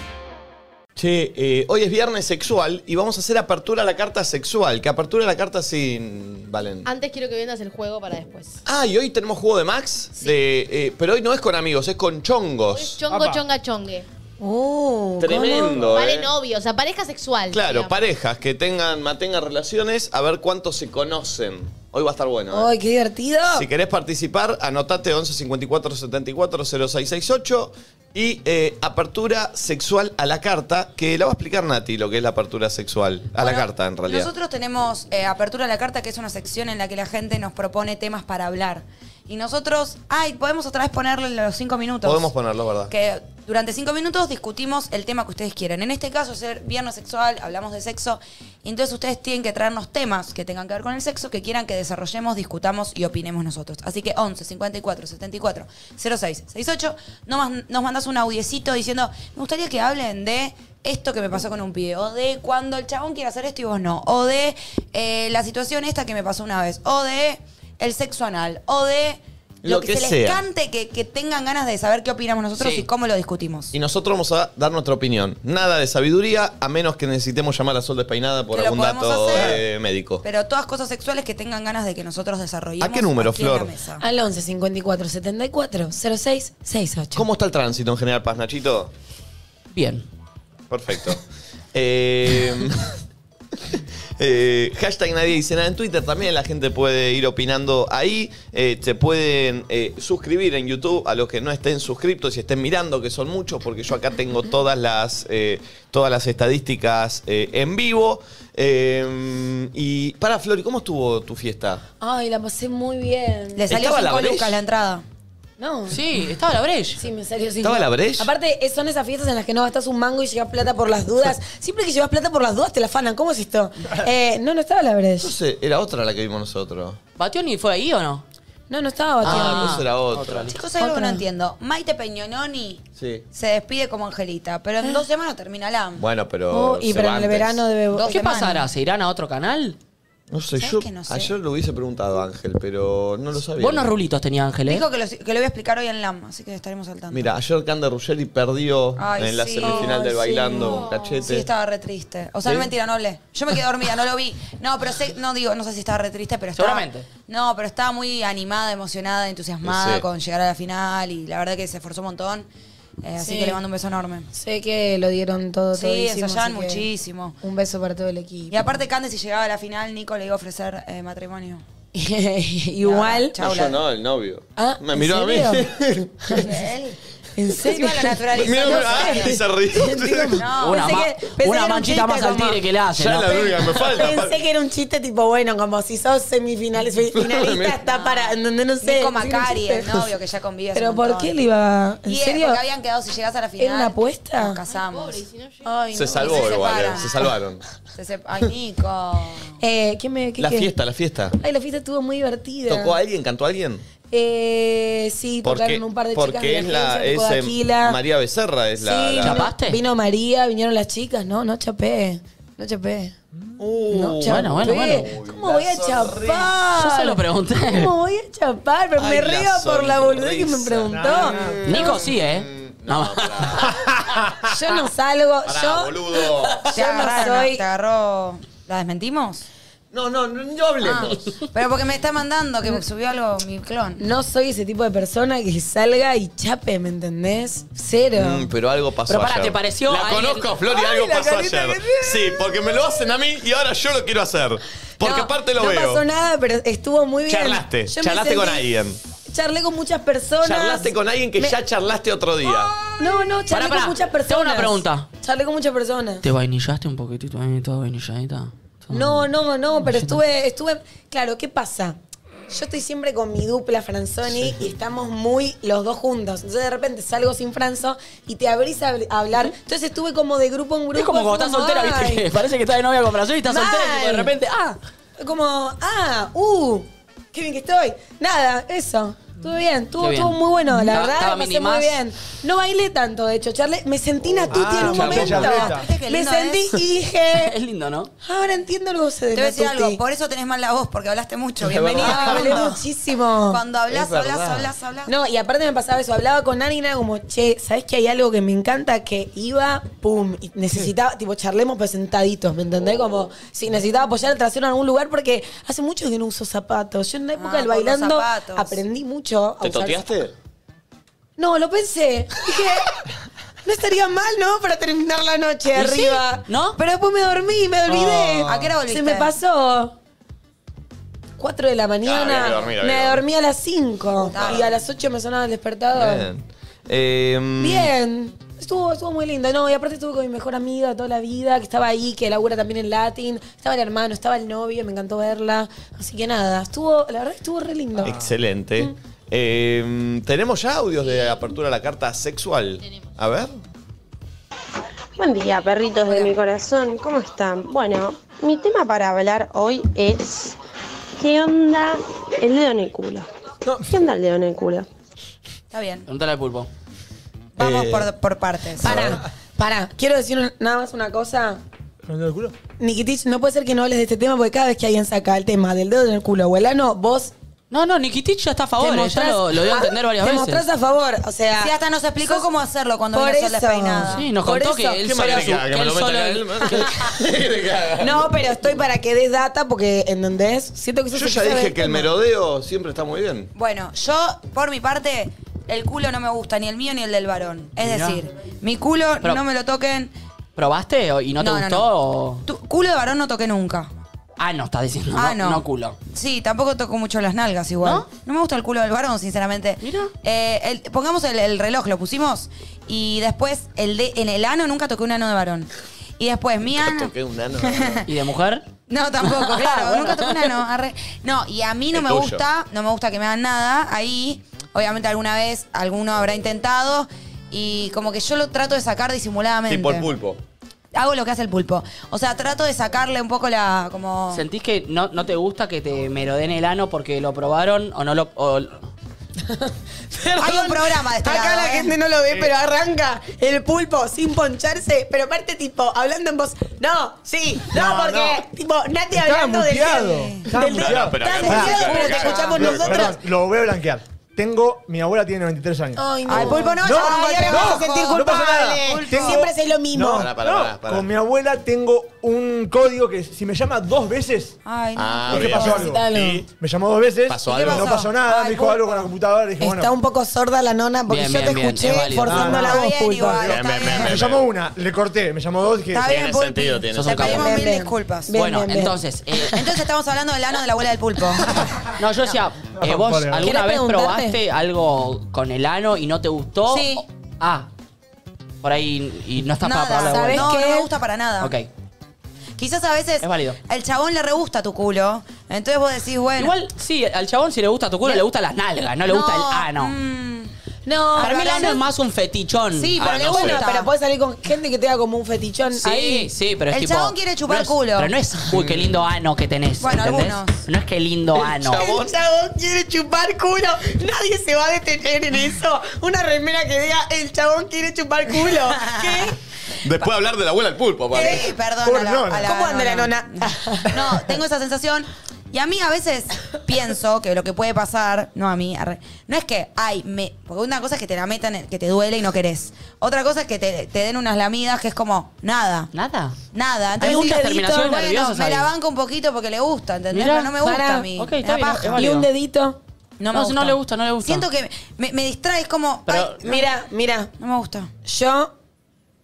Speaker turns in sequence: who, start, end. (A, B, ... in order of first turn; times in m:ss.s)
0:01.0-0:06.9 A
0:06.8-0:08.6 B
0:08.6-0:13.0 A
0:12.7-0:14.0 B
0:13.1-0:13.4 C
0:14.4-0:15.9 D
0:15.2-0:16.3 A
0:15.9-0:17.9 B
0:17.5-0:22.7 A
0:22.5-0:23.6 D
0:23.5-0:34.3 A
0:33.3-0:42.3 E
0:42.0-0:42.9 A
0:42.9-1:13.7 E
1:09.6-1:10.4 A
1:12.6-1:12.9 F
1:13.7-1:20.2 A
1:18.5-1:19.6 E
1:20.2-1:24.0 E
1:22.8-1:23.7 A
1:24.0-1:27.2 D
1:27.1-1:28.9 A
1:29.7-1:30.0 F
1:30.7-1:32.9 A
1:33.6-1:51.8 A
1:52.0-1:53.7 D
1:53.5-1:55.0 E
1:53.7-1:54.6 A
1:55.6-1:56.0 D
1:55.9-1:57.0 F
1:57.0-2:05.3 D
1:57.6-1:58.3 A
2:05.2-2:07.0 A
2:07.2-2:08.2 F
2:08.7-2:09.8 D
2:09.2-2:10.5 A
2:09.2-2:10.6 F
2:10.5-2:16.0 E
2:10.8-2:11.2 D
2:13.0-2:13.2 A
2:16.0-2:17.6 A
2:16.5-2:18.1 D
2:17.9-2:18.7 E
2:18.0-2:19.8 F
2:20.3-2:23.9 A
2:20.6-2:21.3 E
2:23.6-2:24.8 F
2:24.7-2:27.2 E
2:27.1-2:31.5 A
2:29.0-2:30.0 E
2:29.6-2:31.0 D
2:30.7-2:42.5 E
2:32.4-2:32.7 A
2:36.5-2:37.1 F
2:39.6-2:40.0 A
2:43.0-2:44.3 E
2:43.2-2:43.6 D
2:44.3-2:46.8 D
2:45.7-2:47.4 E
2:47.4-2:48.8 D
2:48.5-2:51.6 E
2:51.9-2:53.3 D
2:52.8-2:53.8 E
2:53.4-2:56.5 A
2:54.6-2:55.7 D
2:56.4-2:57.0 E
2:57.4-3:02.6 D
2:57.6-2:59.4 E
2:58.3-3:00.5 A
3:00.4-3:01.0 E
3:00.6-3:03.5 F
3:02.9-3:04.4 A
3:03.7-3:10.1 D
3:07.1-3:07.8 A
3:07.8-3:11.4 E
3:10.7-3:12.6 D
3:12.0-3:15.2 E
3:13.6-3:14.6 D
3:14.7-3:16.9 B
3:15.6-3:17.0 D
3:15.9-3:17.6 A
3:16.2-3:17.1 E
3:17.9-3:19.6 E
3:19.6-3:20.7 D
3:20.4-3:21.4 A
3:21.4-3:23.0 D
3:22.7-3:23.8 A
3:24.1-3:28.0 D
3:25.4-3:29.5 A
3:28.8-3:33.1 D
3:29.2-3:29.8 F
3:33.6-3:36.5 A
3:33.9-3:42.0 D
3:34.2-3:35.1 F
3:36.7-3:37.9 F
3:39.0-3:43.8 A
3:40.9-3:41.6 C
3:41.6-3:43.7 F
3:44.5-3:47.6 D
3:45.4-3:47.1 A
3:46.7-3:49.4 E
3:49.9-3:51.4 A
3:50.8-3:54.0 E
3:54.0-3:58.5 D
3:58.2-4:06.0 A
3:59.1-4:00.5 F
4:00.6-4:02.6 C
4:05.0-4:08.6 D
4:07.2-4:09.0 A
4:09.3-4:11.6 D
4:10.4-4:12.7 A
4:13.0-4:16.2 D
4:13.5-4:15.1 F
4:16.2-4:19.3 F
4:18.9-4:22.0 D
4:19.9-4:20.2 F
4:22.5-4:32.2 D
4:30.9-4:34.8 F
4:33.5-4:34.3 D
4:35.2-4:47.5 D
4:40.0-4:42.0 F
4:44.4-4:45.9 C
4:44.5-4:45.7 A
4:44.9-4:46.8 E
4:47.3-4:48.1 F
4:48.2-4:50.0 D
4:49.3-4:52.8 E
4:51.6-4:52.6 A
4:51.9-4:53.6 D
4:53.4-4:55.1 E
4:53.9-4:54.7 A
4:55.0-5:10.0 D
5:07.4-5:08.8 E
5:09.6-5:10.3 A
5:11.4-5:13.0 D
5:13.6-5:19.9 D
5:15.7-5:16.8 F
5:17.9-5:18.5 F
5:18.4-5:19.3 E
5:21.4-5:26.3 D
5:22.0-5:23.2 A
5:24.3-5:24.7 A
5:24.3-5:24.7 E
5:25.9-5:27.9 A
5:27.6-5:38.2 D
5:38.0-5:43.6 A
5:45.2-5:50.5 G
5:46.0-5:46.3 E
5:51.2-5:53.3 G
5:53.6-5:53.9 C
5:53.8-5:54.8 G
5:55.7-5:56.1 E
5:56.1-5:56.7 F
5:57.6-5:59.1 E
5:57.6-5:58.1 A
5:58.8-6:01.6 D
5:58.8-5:59.2 A
6:02.0-6:02.5 C
6:02.8-6:07.3 D
6:07.7-6:10.6 F
6:08.8-6:12.5 D
6:11.6-6:14.3 E
6:13.1-6:15.0 D
6:14.1-6:17.1 F
6:15.0-6:18.3 A
6:18.0-6:22.1 D
6:21.1-6:23.5 A
6:23.5-6:30.1 E
6:27.8-6:28.2 F
6:30.6-6:32.4 F
6:31.4-6:31.9 E
6:32.4-6:33.9 E
6:34.4-6:36.0 F
6:35.1-6:47.1 E
6:37.8-6:38.1 F
6:39.8-6:40.1 F
6:46.6-6:48.0 A
6:47.6-6:48.0 E
6:48.0-6:48.7 F
6:48.9-7:00.1 E
6:49.2-6:50.5 F
6:51.9-6:52.4 A
6:59.7-7:00.4 A
7:00.9-7:04.4 E
7:04.3-7:08.8 F
7:09.5-7:23.2 D
7:10.4-7:11.9 E
7:17.7-7:18.4 C
7:19.1-7:34.6 C
7:20.6-7:23.2 A
7:21.6-7:23.0 E
7:26.0-7:30.3 D
7:26.2-7:28.4 E
7:30.1-7:31.1 A
7:34.6-7:35.9 E
7:35.0-7:36.4 A
7:35.3-7:39.9 C
7:35.6-7:36.5 D
7:37.3-7:38.0 A
7:37.4-7:39.1 E
7:39.6-7:43.5 D
7:41.1-7:42.6 F
7:42.2-7:46.2 C
7:42.5-7:44.2 E
7:43.4-7:44.5 A
7:45.9-7:48.3 E
7:46.0-7:47.5 A
7:46.9-7:47.5 F
7:47.2-7:49.6 D
7:48.3-7:49.6 F
7:49.5-7:52.4 E
7:52.0-7:57.7 F
7:52.7-7:53.5 C
7:53.4-7:54.4 D
7:56.7-7:57.0 E
7:58.6-8:00.5 F
7:59.6-8:01.5 E
8:00.1-8:00.9 D
8:01.4-8:01.7 F
8:02.6-8:06.6 E
8:03.2-8:03.6 F
8:06.4-8:09.9 F
8:09.0-8:10.5 E
8:10.8-8:11.8 D
8:11.1-8:11.8 E
8:11.2-8:13.5 F
8:12.7-8:13.9 E
8:13.0-8:13.6 A
8:13.4-8:16.3 D
8:15.8-8:21.8 F
8:16.7-8:18.1 E
8:18.5-8:19.0 A
8:19.8-8:20.6 E
8:21.3-8:22.2 A
8:21.7-8:29.4 D
8:28.6-8:29.3 E
8:29.8-8:31.5 A
8:31.1-8:31.5 D
8:31.1-8:45.9 E
8:31.8-8:32.6 C
8:32.4-8:33.9 D
8:45.9-8:46.3 F
8:46.5-8:52.1 E
8:47.0-8:48.7 F
8:47.0-8:47.9 D
8:50.1-8:50.6 F
8:50.6-8:51.1 D
8:51.1-8:52.3 F
8:51.9-8:52.8 D
8:53.2-8:56.6 E
8:53.3-8:54.5 F
8:56.1-8:56.4 F
8:56.4-8:57.3 D
8:57.4-8:57.9 E
8:58.0-8:58.5 D